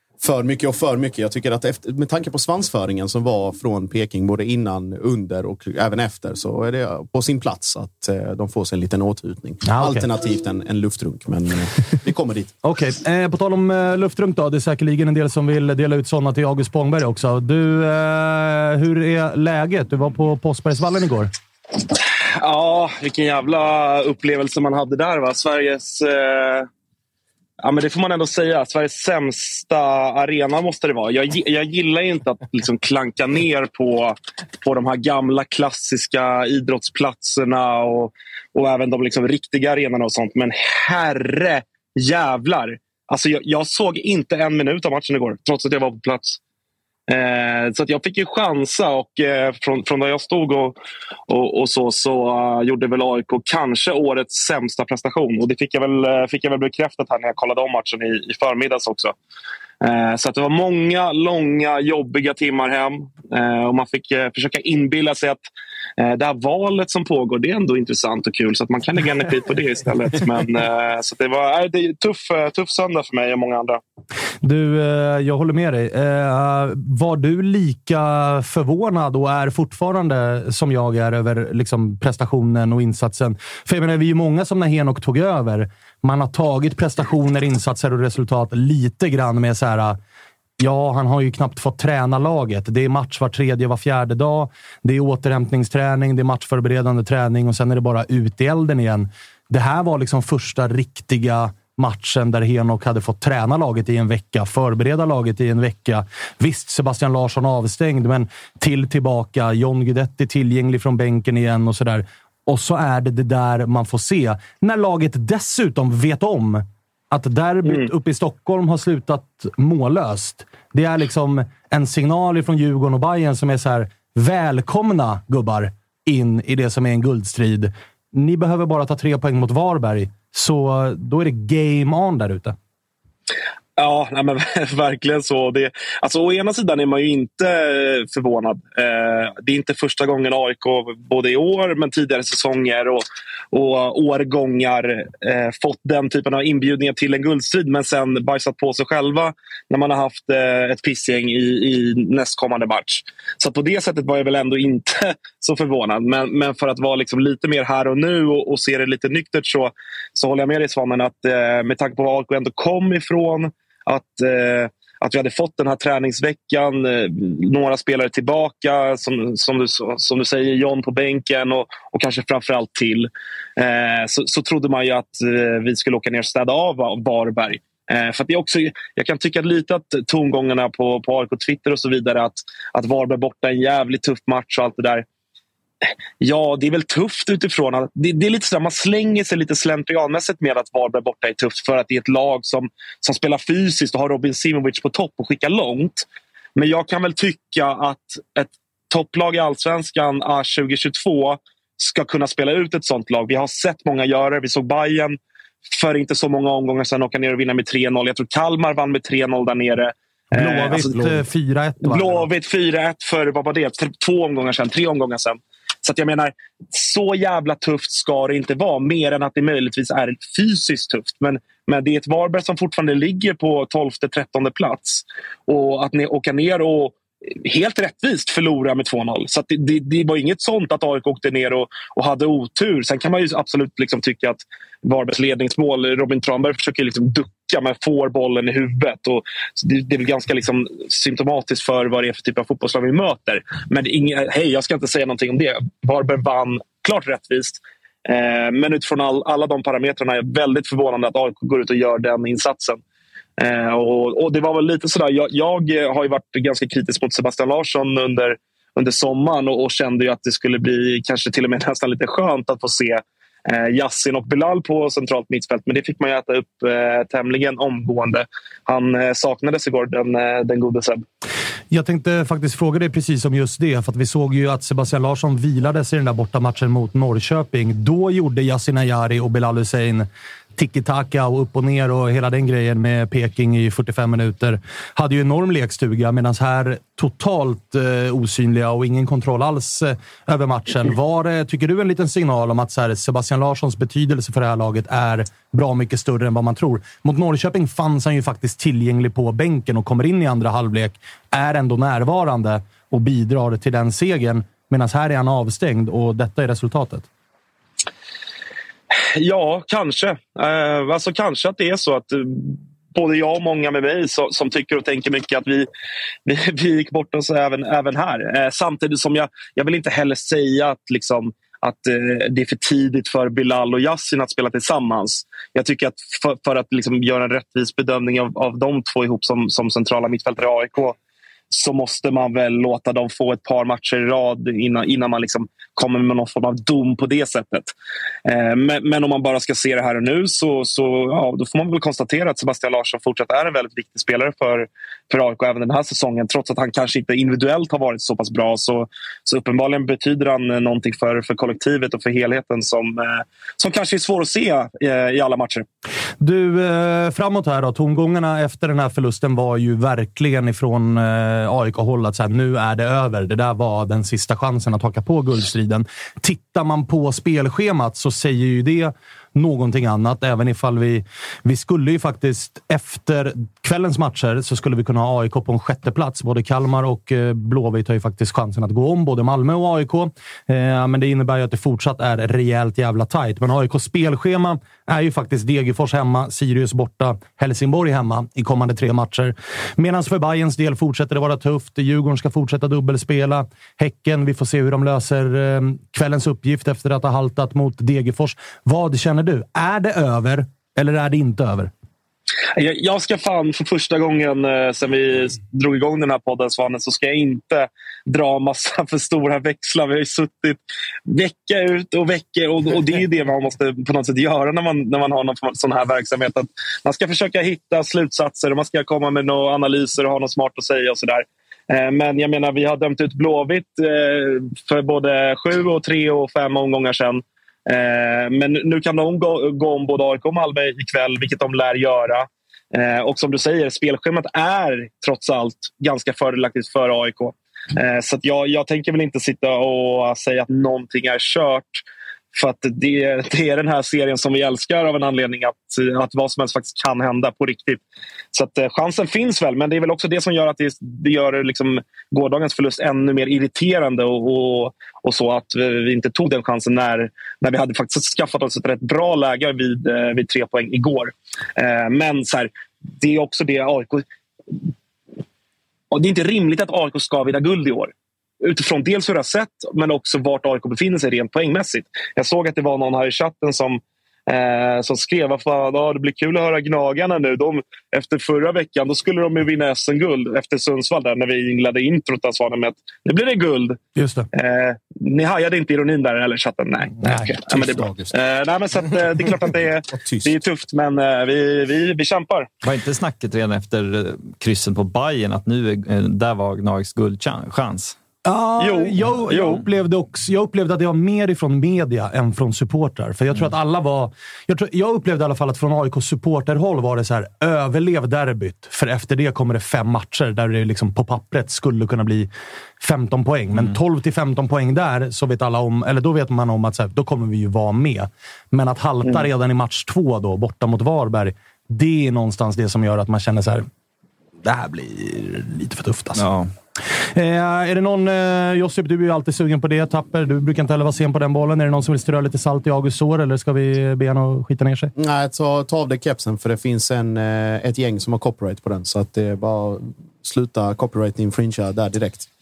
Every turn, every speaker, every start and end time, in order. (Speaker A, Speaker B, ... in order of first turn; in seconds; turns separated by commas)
Speaker A: 0.2-12.5, Speaker B: 9.7-10.1, Speaker B: 12.6-21.3, Speaker C: 22.4-26.7, Speaker C: 27.6-46.4, Speaker C: 47.1-50.8, Speaker C: 51.3-59.1, Speaker C: 59.8-65.4, Speaker C: 66.0-73.8, Speaker B: 74.4-90.0, Speaker B: 90.6-132.6, Speaker C: 133.8-185.1, Speaker C: 186.2-205.2, Speaker C: 205.7-211.2, Speaker B: 210.3-212.3, Speaker C: 211.8-252.8, Speaker C: 253.4-271.0, Speaker B: 271.7-307.1, Speaker C: 309.1-315.7, Speaker C: 316.3-331.0, Speaker C: 331.5-337.7, Speaker C: 338.3-355.7, Speaker B: 356.2-401.7, Speaker C: 402.6-441.8, Speaker C: 442.3-447.8, Speaker C: 448.3-464.1, Speaker C: 465.9-483.8, Speaker B: 484.0-484.3, Speaker C: 484.3-492.5, Speaker A: 487.1-488.1, Speaker A: 489.9-490.4, Speaker D: 492.6-498.0, Speaker B: 498.2-512.3, Speaker C: 498.6-499.6, Speaker B: 512.8-523.7, Speaker B: 524.4-526.2, Speaker D: 526.2-526.5, Speaker B: 527.1-534.9, Speaker A: 535.0-542.3